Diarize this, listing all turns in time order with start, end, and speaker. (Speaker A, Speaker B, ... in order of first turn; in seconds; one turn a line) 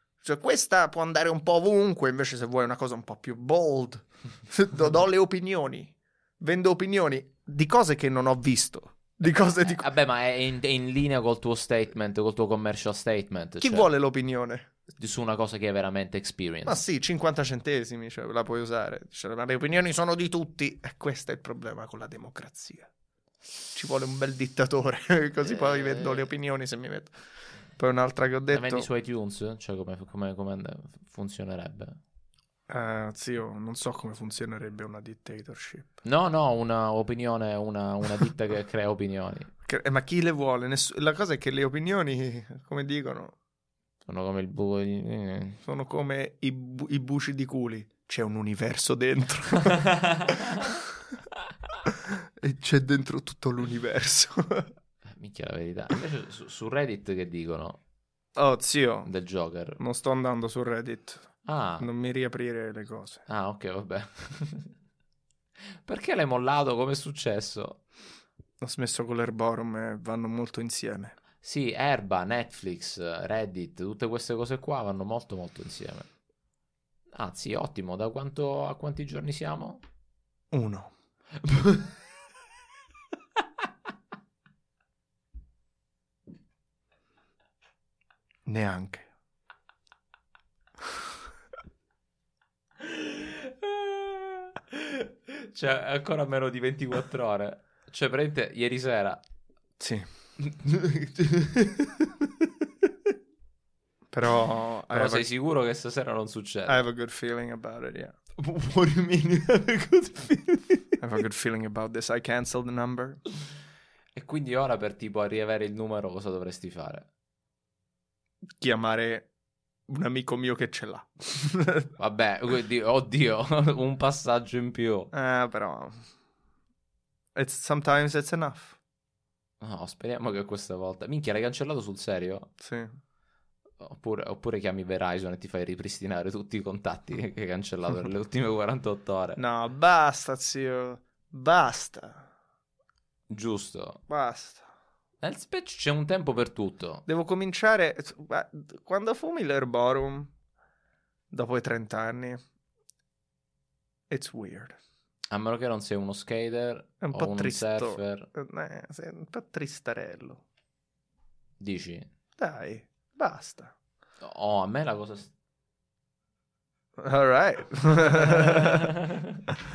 Speaker A: 0.2-9.9
Speaker B: 9.3-13.9
Speaker A: 13.6-14.7
Speaker B: 15.0-16.8
Speaker A: 16.6-22.9
Speaker A: 23.7-27.1
Speaker B: 25.4-26.3
Speaker A: 27.8-28.9
Speaker B: 28.5-32.0
Speaker A: 32.7-35.9
Speaker B: 36.0-39.5
Speaker A: 39.6-43.4
Speaker B: 44.1-45.6
Speaker A: 45.6-50.8
Speaker B: 49.7-50.8
Speaker A: 51.9-54.7
Speaker B: 55.2-57.8
Speaker A: 58.4-59.1
Speaker B: 59.0-59.8
Speaker A: 59.8-63.2
Speaker B: 61.5-61.9
Speaker B: 63.3-64.7
Speaker B: 65.8-67.8
Speaker A: 68.6-71.2
Speaker B: 71.4-76.1
Speaker B: 77.1-79.8
Speaker A: 80.5-80.9
Speaker A: 88.5-89.1
Speaker B: 92.8-99.2
Speaker A: 99.8-100.1
Speaker A: 100.6-102.1
Speaker A: 104.1-105.3
Speaker B: 104.9-106.8
Speaker A: 106.7-113.2
Speaker B: 114.2-117.1
Speaker A: 118.6-119.3
Speaker A: 119.9-121.9
Speaker B: 122.0-125.1
Speaker A: 125.1-126.0
Speaker A: 127.3-128.8
Speaker B: 129.6-132.5
Speaker A: 132.6-132.9
Speaker B: 133.8-139.4
Speaker A: 139.4-142.3
Speaker B: 143.3-144.0
Speaker A: 144.1-144.7
Speaker B: 145.2-147.1
Speaker A: 147.1-150.3
Speaker A: 151.3-152.4
Speaker A: 154.1-154.8
Speaker B: 155.3-158.3
Speaker A: 157.0-160.4
Speaker B: 161.6-162.1
Speaker A: 162.4-163.7
Speaker B: 164.2-165.3
Speaker A: 167.0-168.9
Speaker B: 168.3-169.2